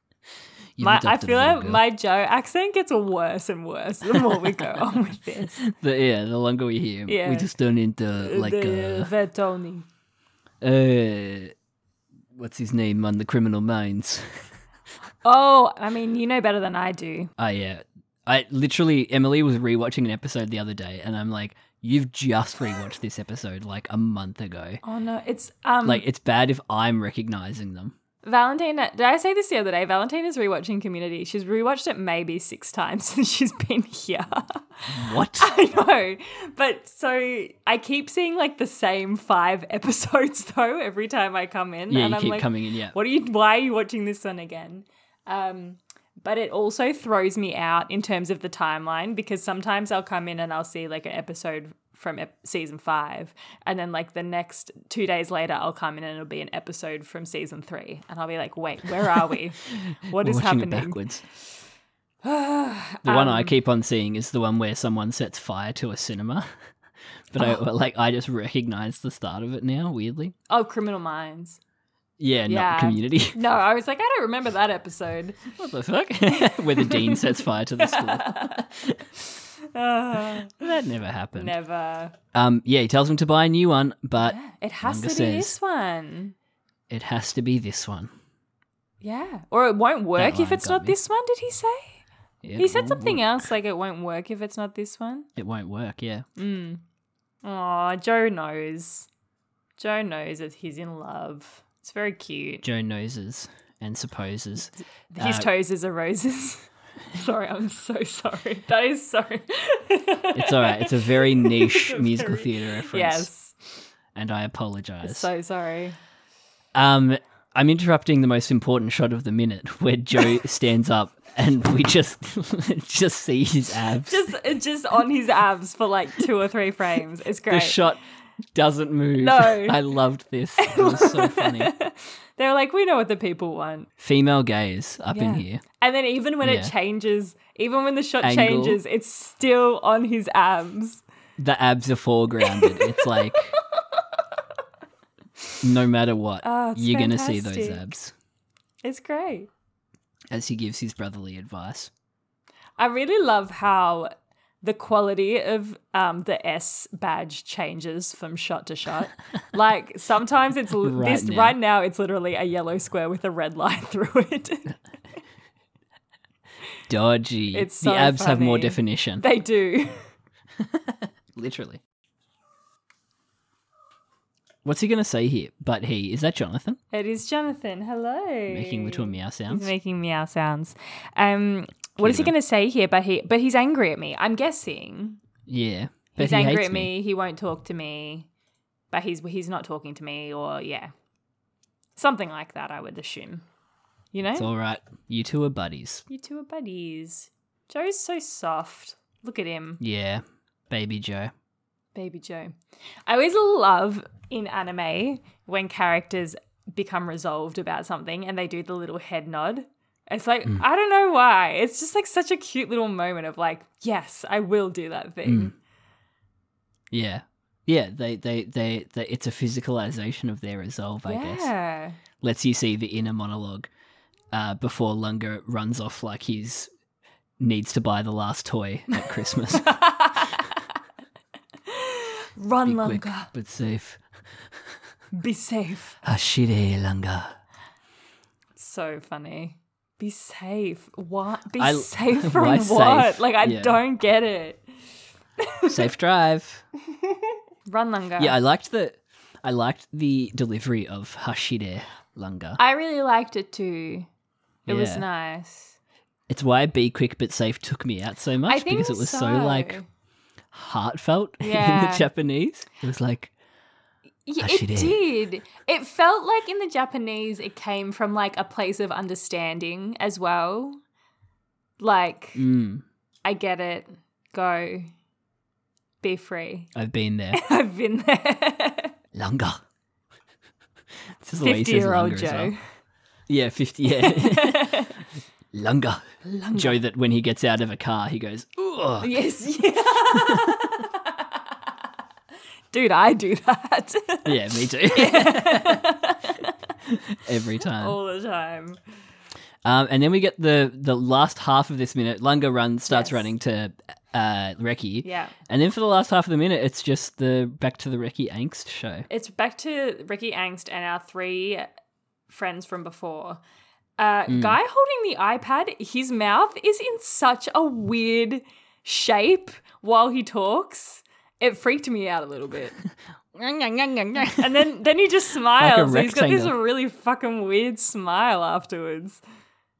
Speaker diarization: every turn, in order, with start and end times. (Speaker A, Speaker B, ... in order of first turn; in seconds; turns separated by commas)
Speaker A: 0.8-1.8, Speaker B: 0.8-5.6, Speaker A: 4.3-4.6, Speaker A: 5.6-9.1, Speaker B: 7.1-7.5, Speaker B: 8.2-9.9, Speaker A: 10.6-11.5, Speaker A: 12.3-14.5, Speaker B: 15.2-17.3, Speaker A: 17.4-24.8, Speaker B: 24.8-26.1, Speaker A: 25.9-27.9, Speaker B: 28.2-61.0, Speaker A: 34.9-35.5, Speaker A: 41.9-43.0, Speaker A: 60.1-61.2, Speaker B: 62.2-63.5, Speaker A: 63.0-66.5, Speaker A: 67.3-70.3, Speaker B: 70.5-71.6, Speaker A: 72.2-73.4, Speaker B: 72.5-75.4, Speaker A: 75.6-79.0, Speaker B: 76.3-78.7, Speaker B: 79.7-80.6, Speaker A: 80.4-81.5, Speaker B: 81.4-82.2, Speaker A: 82.3-85.6, Speaker B: 84.2-86.3, Speaker A: 86.9-88.1, Speaker B: 89.0-92.0, Speaker A: 90.2-91.0, Speaker A: 92.4-93.4, Speaker B: 92.6-95.3, Speaker A: 95.4-96.2, Speaker B: 96.4-96.8, Speaker B: 97.4-99.1, Speaker B: 99.8-102.6, Speaker A: 102.6-105.5, Speaker B: 105.1-113.8, Speaker A: 110.3-113.3, Speaker A: 114.2-115.3, Speaker B: 115.0-116.0, Speaker A: 116.8-124.3, Speaker B: 124.1-127.8, Speaker A: 127.5-128.0, Speaker A: 128.5-131.7, Speaker B: 129.2-129.8, Speaker B: 130.6-133.9, Speaker A: 134.0-135.6, Speaker B: 135.1-141.0, Speaker A: 136.4-136.7, Speaker A: 138.2-138.8, Speaker A: 141.4-143.6, Speaker B: 142.6-143.1, Speaker A: 145.6-148.1, Speaker B: 146.4-147.9, Speaker B: 148.8-149.5, Speaker A: 150.3-151.9, Speaker B: 152.8-154.1, Speaker B: 154.6-164.7, Speaker A: 160.8-161.6, Speaker A: 166.9-169.2, Speaker B: 167.5-170.1, Speaker A: 170.6-171.8, Speaker A: 174.7-176.8, Speaker B: 176.9-185.2, Speaker A: 178.5-179.7, Speaker A: 182.0-182.3, Speaker A: 185.5-186.9, Speaker B: 186.2-188.3, Speaker B: 188.9-190.9, Speaker B: 192.0-193.4, Speaker B: 194.1-194.5, Speaker A: 194.4-196.0, Speaker B: 196.1-199.8, Speaker A: 199.8-201.3, Speaker B: 201.9-202.6, Speaker B: 203.1-215.5, Speaker A: 215.2-215.5, Speaker A: 216.9-221.5, Speaker B: 221.1-222.0, Speaker A: 222.2-223.7, Speaker A: 224.3-226.7, Speaker A: 227.4-229.8, Speaker B: 229.5-230.5, Speaker B: 231.7-233.3, Speaker A: 232.6-234.0, Speaker B: 235.1-236.0, Speaker A: 236.0-237.4, Speaker B: 238.6-244.7, Speaker A: 241.6-243.8, Speaker B: 245.4-245.7, Speaker A: 245.7-246.7, Speaker B: 247.7-248.4, Speaker A: 248.2-252.6, Speaker B: 252.6-254.1, Speaker A: 254.7-255.0, Speaker B: 254.7-255.8, Speaker A: 256.3-259.8, Speaker B: 258.5-259.8, Speaker A: 260.5-263.3, Speaker B: 261.4-262.1, Speaker B: 264.3-270.8, Speaker A: 264.4-265.0, Speaker B: 271.8-272.4, Speaker A: 272.4-272.8, Speaker B: 273.2-274.9, Speaker B: 276.0-276.7, Speaker A: 276.8-277.4, Speaker B: 277.3-278.9, Speaker A: 279.1-279.6, Speaker A: 281.2-282.5, Speaker B: 281.4-282.6, Speaker A: 283.3-284.9, Speaker B: 284.0-284.9, Speaker A: 285.5-289.1, Speaker B: 286.2-286.8, Speaker B: 289.0-291.2, Speaker B: 292.7-294.4, Speaker A: 294.2-296.0, Speaker B: 294.9-296.5, Speaker A: 296.9-298.0, Speaker B: 297.8-298.8, Speaker A: 299.6-309.1, Speaker B: 302.9-303.3, Speaker B: 305.0-305.3, Speaker B: 309.1-311.7, Speaker B: 312.3-313.4, Speaker B: 314.0-322.8, Speaker A: 314.3-314.6, Speaker A: 323.4-324.5, Speaker B: 324.4-329.2, Speaker A: 325.6-326.6